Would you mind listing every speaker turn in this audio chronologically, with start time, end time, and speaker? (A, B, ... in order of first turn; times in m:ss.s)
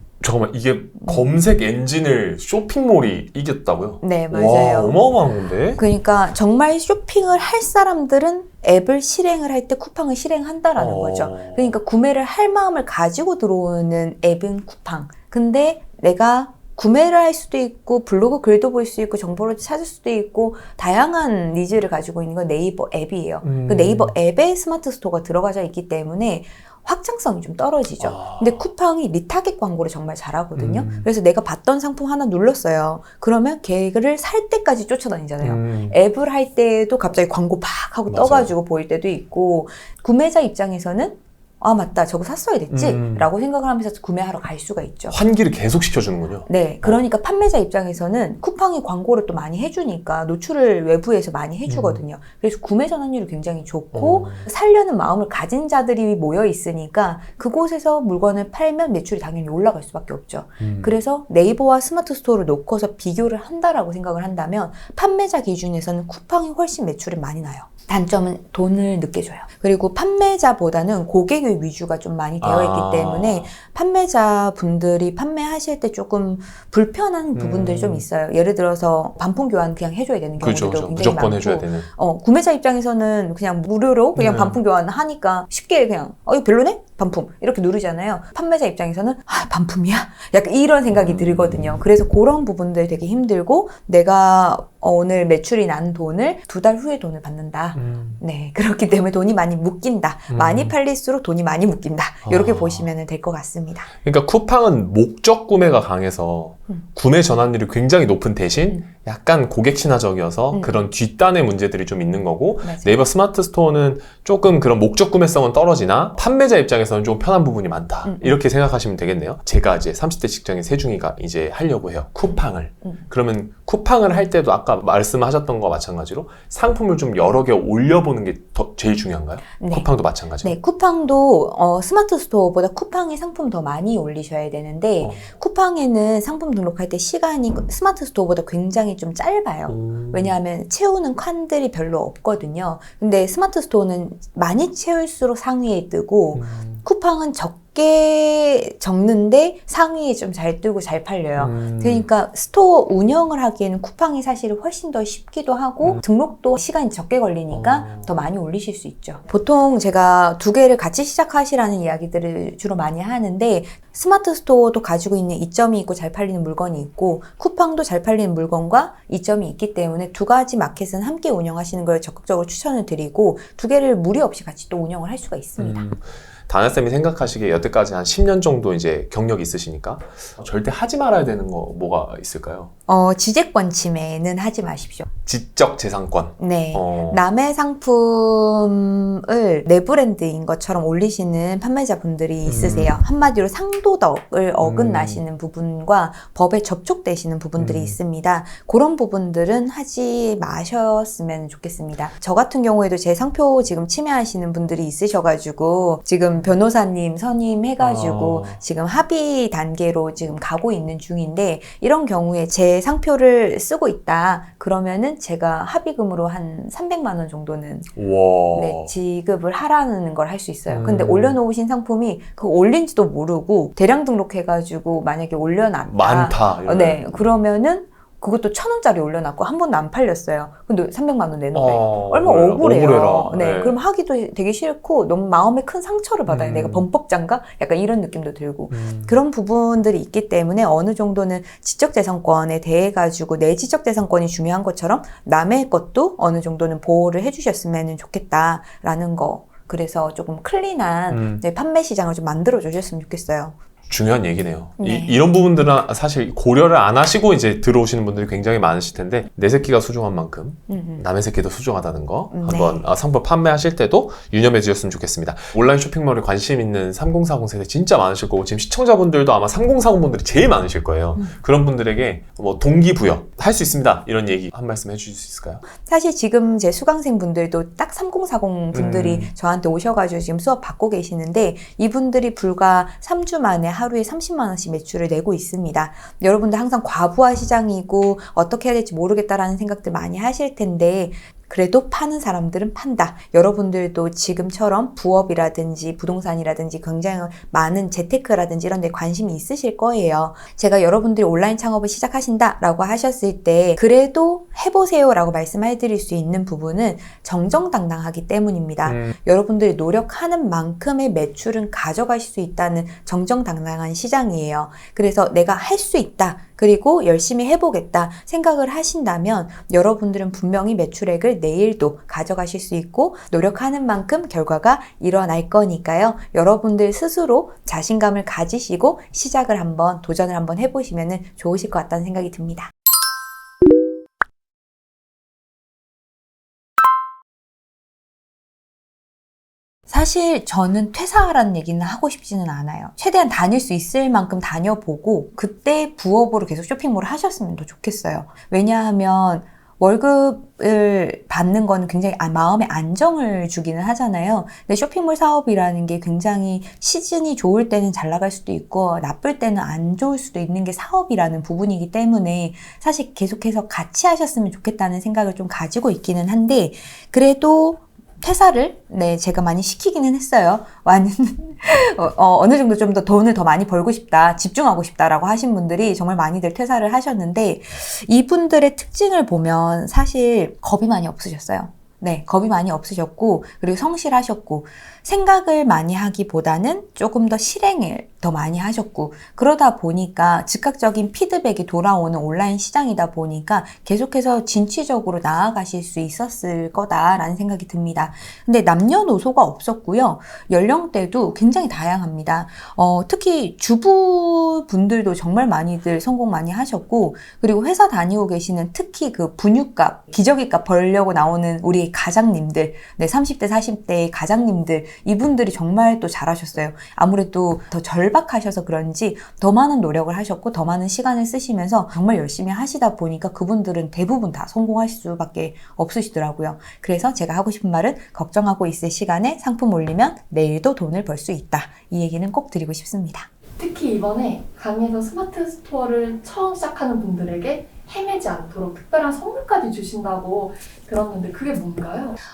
0:00.2-0:05.8 A
0:01.0-0:01.3 B
0:04.0-0:05.0 B
0:05.8-0:45.2 B
0:10.8-0:11.8 A
0:23.4-0:24.1 A
0:28.0-0:28.7 A
0:30.6-0:31.1 A
0:35.4-0:36.0 A
0:38.1-0:38.5 A
0:42.7-0:43.3 A
0:45.1-0:47.0 A
0:46.5-1:43.9 B
0:51.7-0:52.0 A
0:53.9-0:54.5 A
1:00.6-1:01.0 A
1:12.4-1:13.5 A
1:17.3-1:18.0 A
1:20.4-1:21.9 A
1:24.2-1:24.6 A
1:31.0-1:31.8 A
1:37.7-1:38.2 A
1:40.3-1:40.7 A
1:42.2-1:42.9 A
1:44.0-2:10.5 A
1:50.5-1:50.9 B
1:52.6-1:53.0 B
1:58.0-1:58.4 B
2:09.6-2:09.9 B
2:10.4-2:55.8 B
2:15.0-2:15.3 A
2:19.7-2:20.4 A
2:26.3-2:26.8 A
2:31.4-2:32.1 A
2:37.5-2:38.1 A
2:55.6-3:02.7 A
3:02.9-3:05.1 B
3:05.2-3:07.2 A
3:06.4-3:37.9 B
3:12.4-3:13.0 A
3:14.6-3:15.2 A
3:17.6-3:18.0 A
3:27.8-3:28.6 A
3:37.9-3:38.9 A
3:38.5-4:13.6 B
3:40.7-3:41.4 A
3:45.9-3:47.2 A
3:51.5-3:53.8 A
3:56.3-3:56.8 A
3:58.7-3:59.2 A
4:11.1-4:11.4 A
4:13.9-4:35.6 A
4:14.8-4:15.2 B
4:20.7-4:21.0 B
4:22.3-4:22.8 B
4:35.8-5:32.7 B
4:38.7-4:39.3 A
5:08.8-5:09.1 A
5:39.9-7:13.3 B
7:13.6-7:22.2 C